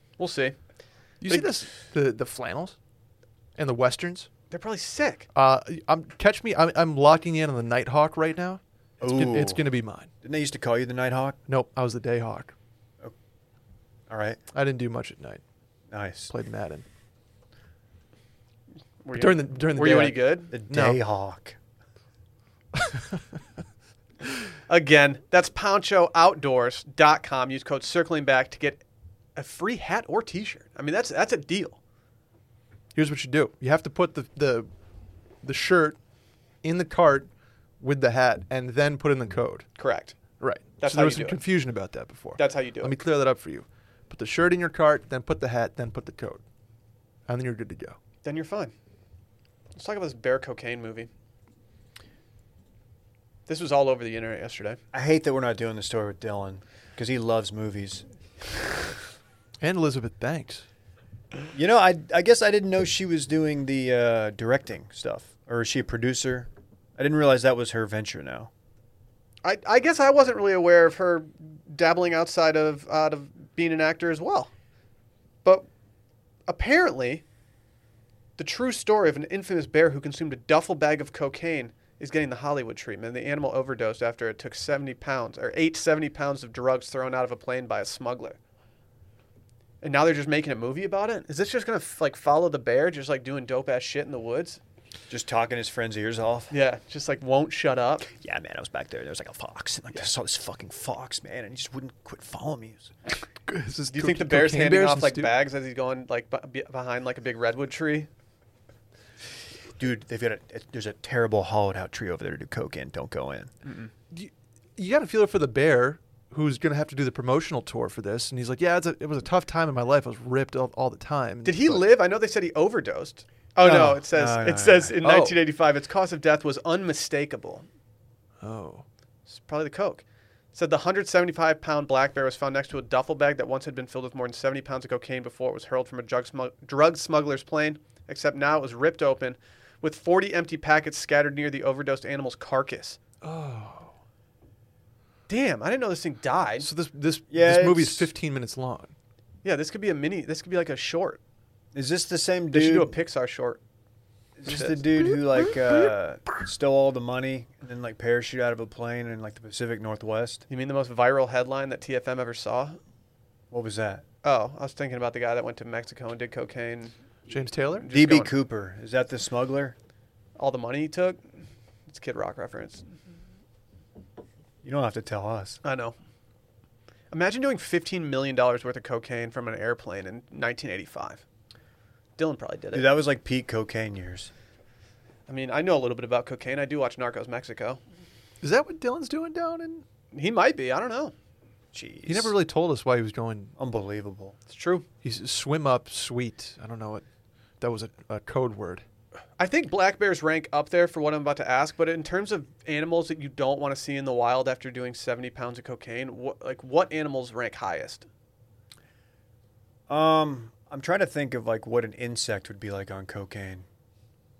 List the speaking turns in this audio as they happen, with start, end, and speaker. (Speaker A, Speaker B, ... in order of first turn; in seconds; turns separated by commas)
Speaker A: 0.2-0.6, Speaker B: 1.2-2.8, Speaker B: 3.6-4.3, Speaker A: 4.5-5.3, Speaker B: 5.3-10.1, Speaker C: 9.0-9.6, Speaker C: 10.2-11.4, Speaker B: 11.5-12.5, Speaker C: 14.1-14.4, Speaker B: 14.5-15.4, Speaker C: 15.9-16.3, Speaker B: 16.3-16.8, Speaker A: 19.0-20.5, Speaker B: 19.1-21.0, Speaker C: 20.5-21.6, Speaker B: 22.8-23.1, Speaker A: 24.7-28.8, Speaker A: 29.4-31.8, Speaker B: 32.9-34.7, Speaker B: 35.4-36.0, Speaker B: 36.6-37.3, Speaker B: 37.8-39.7, Speaker A: 39.8-40.2, Speaker B: 40.4-46.4, Speaker A: 40.8-41.4, Speaker A: 42.4-43.0, Speaker B: 47.3-48.0, Speaker A: 48.2-48.7, Speaker A: 49.7-51.1, Speaker A: 53.5-54.8, Speaker C: 54.9-58.0, Speaker B: 59.6-60.6, Speaker C: 61.5-68.5, Speaker A: 69.4-74.5, Speaker A: 76.5-77.2, Speaker A: 78.4-88.4, Speaker A: 89.8-94.6, Speaker C: 95.1-96.5, Speaker A: 96.5-98.1, Speaker C: 98.1-102.9, Speaker B: 103.4-105.3, Speaker A: 103.9-108.1, Speaker C: 109.8-113.5, Speaker A: 113.6-113.9, Speaker B: 114.1-121.8, Speaker A: 121.4-127.7, Speaker C: 123.6-124.9, Speaker B: 123.7-123.9, Speaker B: 125.0-125.4, Speaker B: 128.4-128.8, Speaker A: 129.3-143.0, Speaker B: 143.2-143.9, Speaker A: 145.3-146.7, Speaker B: 146.6-148.9, Speaker C: 147.3-148.1, Speaker A: 149.4-151.2, Speaker C: 151.7-152.9, Speaker A: 152.5-153.6, Speaker C: 154.4-160.4, Speaker A: 154.5-154.8, Speaker A: 160.5-162.8, Speaker C: 163.5-164.0, Speaker A: 164.2-166.9, Speaker B: 167.3-167.9, Speaker A: 167.8-168.3, Speaker C: 167.9-169.7, Speaker A: 170.4-171.2, Speaker A: 171.9-172.9, Speaker C: 174.6-175.6, Speaker A: 175.6-175.9, Speaker A: 177.1-181.2, Speaker A: 182.2-182.9, Speaker C: 182.7-184.3, Speaker A: 185.3-187.8, Speaker B: 188.4-189.8, Speaker A: 190.1-191.1, Speaker C: 191.7-192.3, Speaker B: 192.1-193.5, Speaker C: 193.6-194.3, Speaker A: 194.5-194.8, Speaker B: 195.0-197.0, Speaker B: 197.6-198.8, Speaker A: 199.4-208.1, Speaker C: 209.9-213.7